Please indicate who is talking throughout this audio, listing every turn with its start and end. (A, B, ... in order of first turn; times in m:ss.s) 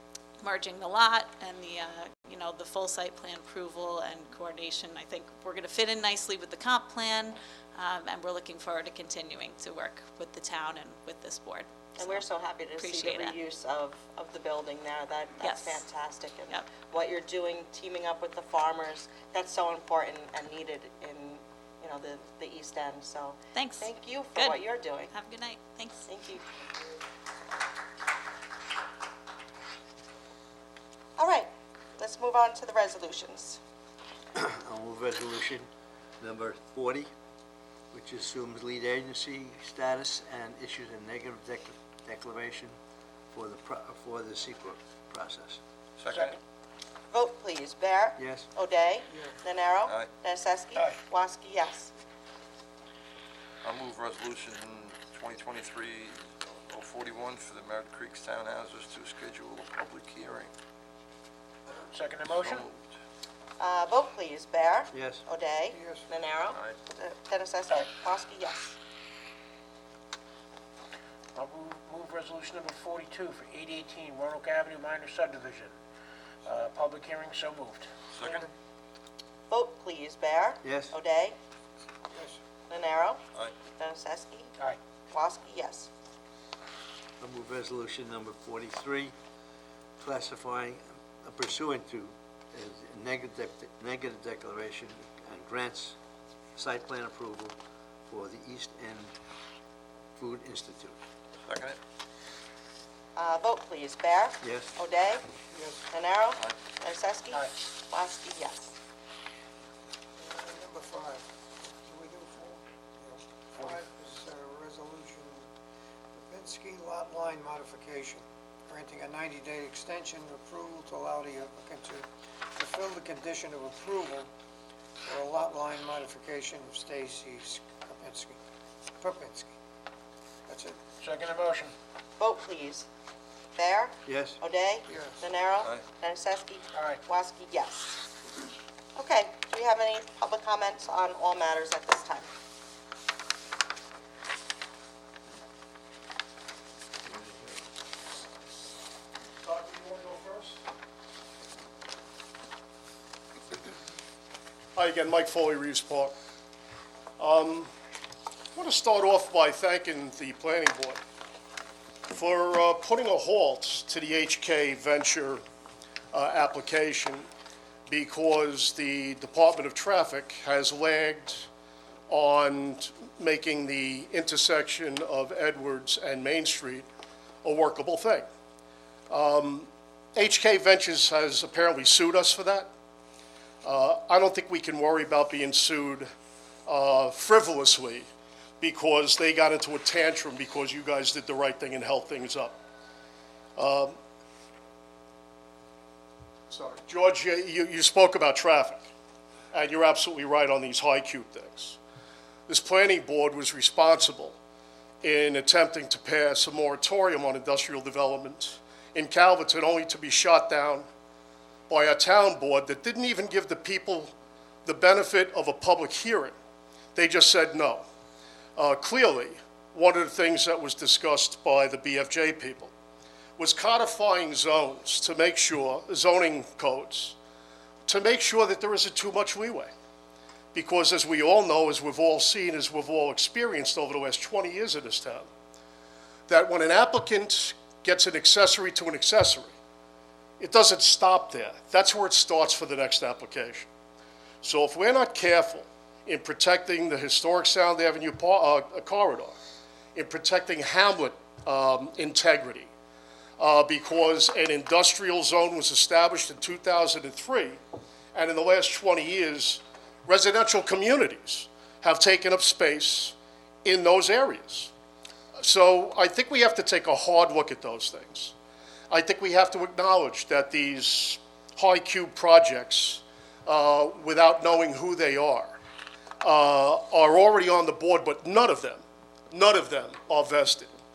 0:00.4-0:12.2 A
0:12.0-0:25.1 B
0:12.8-0:13.4 A
0:15.4-0:15.8 A
0:23.6-0:26.1 A
0:26.1-0:26.4 B
0:31.2-0:33.6 B
0:34.4-0:35.7 C
0:36.2-0:37.1 C
0:37.9-0:42.8 C
0:43.3-0:45.6 C
0:46.0-0:46.4 D
0:46.1-0:46.4 E
0:47.1-0:51.9 B
0:48.2-0:48.5 C
0:49.8-0:50.1 D
0:50.8-0:51.0 E
0:53.6-1:00.5 D
1:01.9-1:02.7 E
1:02.3-1:02.8 D
1:03.6-1:08.8 B
1:04.9-1:05.2 C
1:05.7-1:06.1 F
1:06.5-1:06.8 D
1:11.4-1:15.7 E
1:16.4-1:18.5 E
1:18.1-1:18.5 D
1:19.5-1:21.4 B
1:20.6-1:21.0 C
1:22.1-1:22.4 F
1:22.7-1:23.2 B
1:23.8-1:24.5 B
1:25.1-1:25.9 B
1:27.2-1:29.1 C
1:30.0-1:36.0 C
1:36.6-1:37.6 C
1:38.1-1:39.1 C
1:40.2-1:41.0 C
1:41.4-1:41.8 D
1:43.2-1:45.2 B
1:44.4-1:44.7 C
1:45.5-1:45.9 F
1:45.9-1:48.8 B
1:50.2-1:55.5 F
1:56.2-2:04.3 F
2:05.0-2:08.4 F
2:09.0-2:09.5 F
2:10.5-2:10.8 F
2:11.0-2:11.7 E
2:12.2-2:12.9 B
2:13.6-2:18.0 B
2:14.1-2:14.4 C
2:14.9-2:15.2 F
2:16.7-2:17.0 E
2:19.0-2:22.3 B
2:29.4-2:30.6 G
2:34.8-2:36.1 G
2:37.2-2:37.7 G
2:38.6-2:41.0 G
2:42.1-2:45.4 G
2:46.1-2:47.3 G
2:47.9-2:51.5 G
2:52.1-2:56.9 G
2:57.4-2:58.3 G
2:59.1-3:02.7 G
3:03.6-3:06.1 G
3:06.7-3:08.1 G
3:08.6-3:12.6 G
3:13.6-3:14.0 G
3:16.5-3:18.9 G
3:19.5-3:21.8 G
3:22.5-3:24.4 G
3:25.0-3:30.9 G
3:31.7-3:34.1 G
3:34.7-3:36.4 G
3:37.0-3:37.8 G
3:38.6-3:42.7 G
3:43.4-3:47.2 G
3:47.9-3:49.7 G
3:50.5-3:55.3 G
3:56.3-3:59.5 G
4:00.4-4:03.7 G
4:04.4-4:09.4 G
4:09.9-4:12.7 G
4:13.4-4:17.6 G
4:18.1-4:24.7 G
4:25.4-4:28.4 G
4:28.9-4:35.6 G
4:36.2-4:40.8 G